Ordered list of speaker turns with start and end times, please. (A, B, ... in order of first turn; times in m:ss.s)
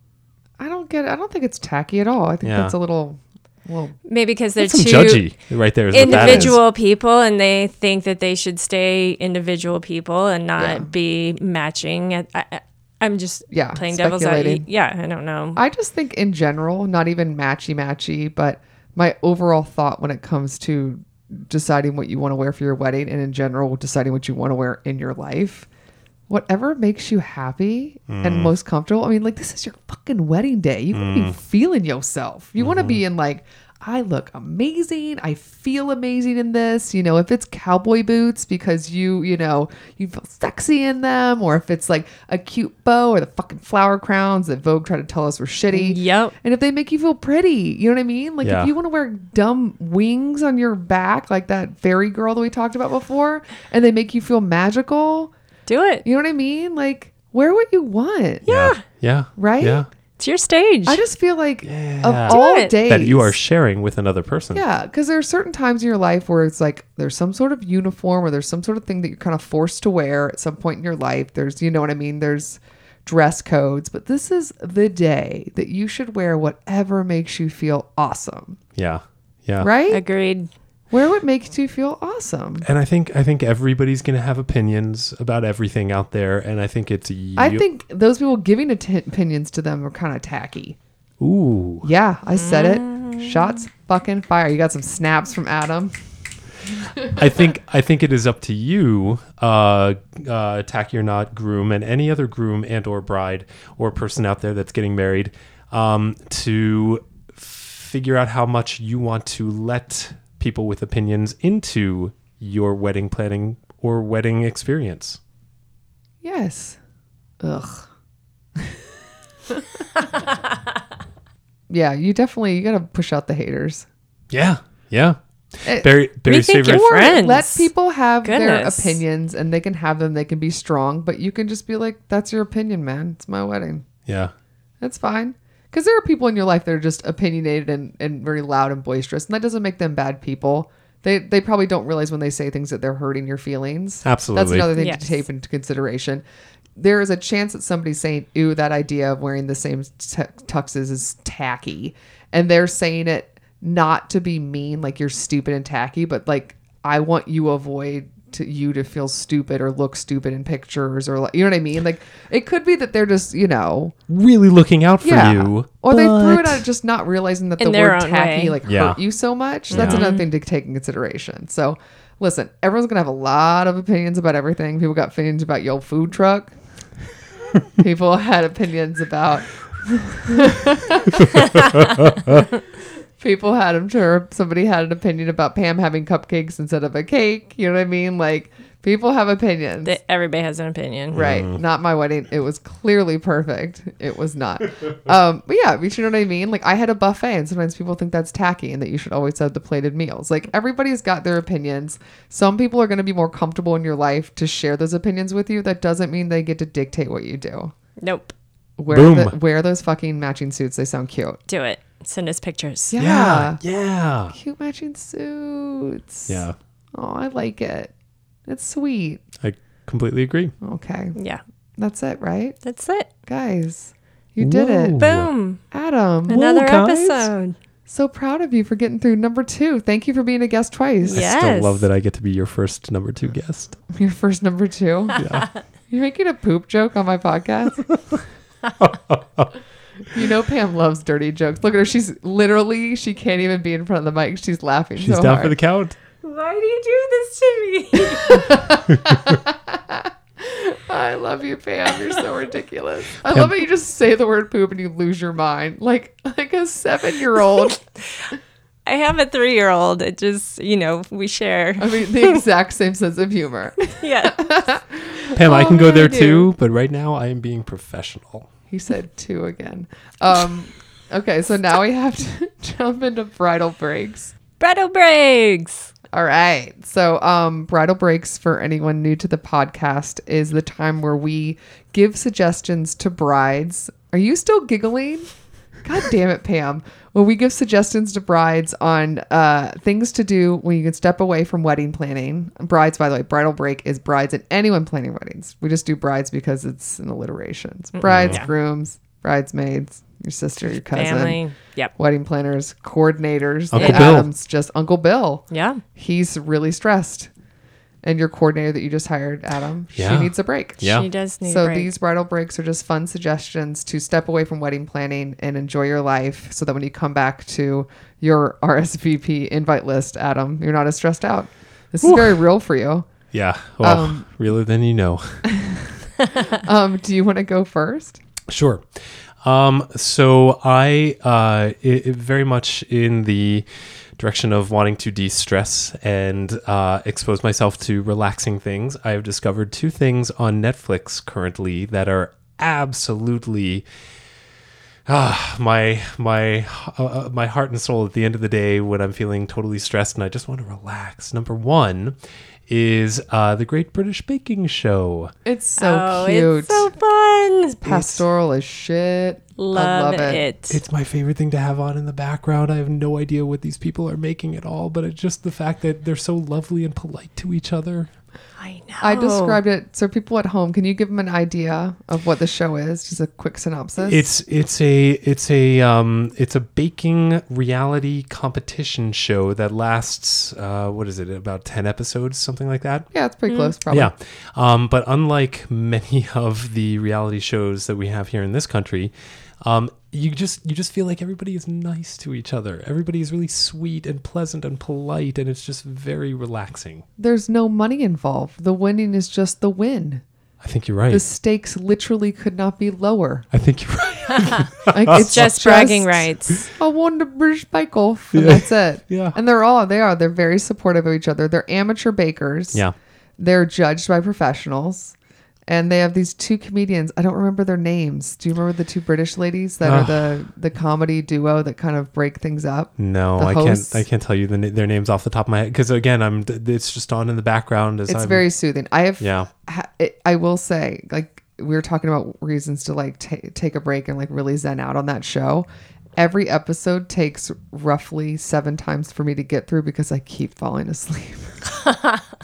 0:00.6-0:04.0 A
0:02.4-0:02.7 B
0:04.0-0:05.3 C
0:04.6-0:06.6 B
0:05.9-0:15.6 C
0:06.0-0:06.6 A
0:10.6-0:10.9 A
0:13.5-0:14.6 A
0:15.6-0:25.7 A
0:26.3-0:55.3 A
0:28.1-0:28.5 B
0:30.9-0:31.4 B
0:32.6-0:33.0 B
0:45.7-0:46.3 C
0:48.4-0:48.7 B
0:55.7-0:56.0 C
0:56.0-0:58.4 A
0:58.4-0:58.8 C
0:58.4-0:59.9 B
0:59.4-0:59.8 A
1:00.2-1:01.0 C
1:00.8-1:03.3 A
1:01.6-1:04.6 B
1:02.3-1:02.7 C
1:04.5-1:18.6 A
1:18.8-1:19.7 B
1:19.6-1:20.0 A
1:19.9-1:20.5 C
1:20.9-1:22.6 A
1:22.6-1:27.6 B
1:27.4-1:30.8 A
1:31.2-1:31.9 B
1:31.8-1:36.0 A
1:32.3-1:33.6 C
1:37.0-1:55.2 B
1:56.2-1:56.8 A
1:57.4-1:57.8 A
2:01.7-2:03.8 A
2:04.3-2:06.9 B
2:05.6-2:05.9 A
2:06.2-2:07.7 C
2:06.6-2:13.8 A
2:08.2-2:09.0 C
2:14.0-2:14.3 B
2:14.8-2:26.2 A
2:24.0-2:24.7 B
2:24.8-2:25.2 C
2:26.8-2:43.9 A
2:44.1-2:46.6 B
2:45.0-2:56.5 A
2:47.6-2:48.6 C
2:48.6-2:49.0 B
2:49.7-2:50.0 B
2:49.7-2:50.2 C
2:57.8-3:02.4 A
3:01.7-3:02.4 B
3:03.2-3:10.0 A
3:09.8-3:11.2 C
3:11.1-3:11.6 B
3:11.1-3:27.7 A
3:28.0-3:28.3 C
3:28.8-3:31.4 A
3:28.9-3:29.3 B
3:31.5-3:32.9 C
3:32.9-3:33.6 A
3:33.0-3:34.3 B
3:34.3-3:37.9 A
3:36.3-3:36.6 B
3:38.5-3:39.2 A
3:39.4-3:40.5 B
3:40.6-3:41.2 A
3:41.1-3:41.4 C
3:41.8-3:42.6 A
3:42.6-3:43.1 C
3:43.2-3:45.0 A
3:44.4-3:45.3 B
3:45.0-3:45.6 C
3:45.7-3:46.4 A
3:46.3-3:47.3 B
3:46.3-3:47.6 C
3:47.9-3:51.2 A
3:51.0-3:51.9 C
3:51.1-3:53.8 B
3:53.9-3:55.2 A
3:55.2-3:55.5 B
3:55.9-3:57.9 A
3:58.8-3:59.5 B
4:00.1-4:05.6 A
4:05.0-4:06.0 B
4:06.2-4:08.6 C
4:08.0-4:17.8 A
4:13.3-4:13.5 B
4:18.8-4:22.4 C
4:21.8-4:26.4 A
4:23.9-4:24.4 C
4:25.3-4:28.5 B
4:25.5-4:26.4 C
4:28.7-4:34.3 A
4:34.6-4:35.9 C
4:36.1-4:45.3 A
4:45.8-5:01.4 A
4:58.0-4:58.5 C
4:58.0-4:58.4 B
5:00.9-5:01.9 C
5:02.0-5:05.4 A
5:03.7-5:04.3 B
5:03.8-5:04.2 C
5:05.5-5:05.8 C
5:06.0-5:07.3 A
5:08.0-5:23.1 A
5:10.0-5:11.1 B
5:10.8-5:11.9 C
5:22.0-5:22.4 B
5:23.3-5:25.4 B
5:23.8-5:24.2 A
5:25.4-5:28.2 A
5:28.5-5:33.6 B
5:34.2-5:43.8 B
5:45.1-5:55.3 B
5:55.4-5:56.9 A
5:55.8-5:57.8 C
5:57.7-6:00.4 A
5:57.8-5:58.2 B
5:59.6-6:00.8 C
6:00.7-6:08.1 B
6:08.6-6:09.6 C
6:09.0-6:14.3 A
6:14.0-6:23.1 B
6:23.1-6:24.1 A
6:23.5-6:23.7 C
6:23.9-6:37.0 B
6:37.2-6:40.2 A
6:40.6-6:41.2 B
6:41.1-6:43.5 A
6:43.5-6:45.5 B
6:44.9-6:52.8 A
6:45.1-6:46.7 C
6:48.3-6:49.4 B
6:53.4-6:55.1 A
6:55.7-7:04.0 A
6:59.8-7:00.4 B
7:03.0-7:08.4 B
7:08.1-7:21.6 A
7:09.2-7:09.5 B
7:21.9-7:22.2 C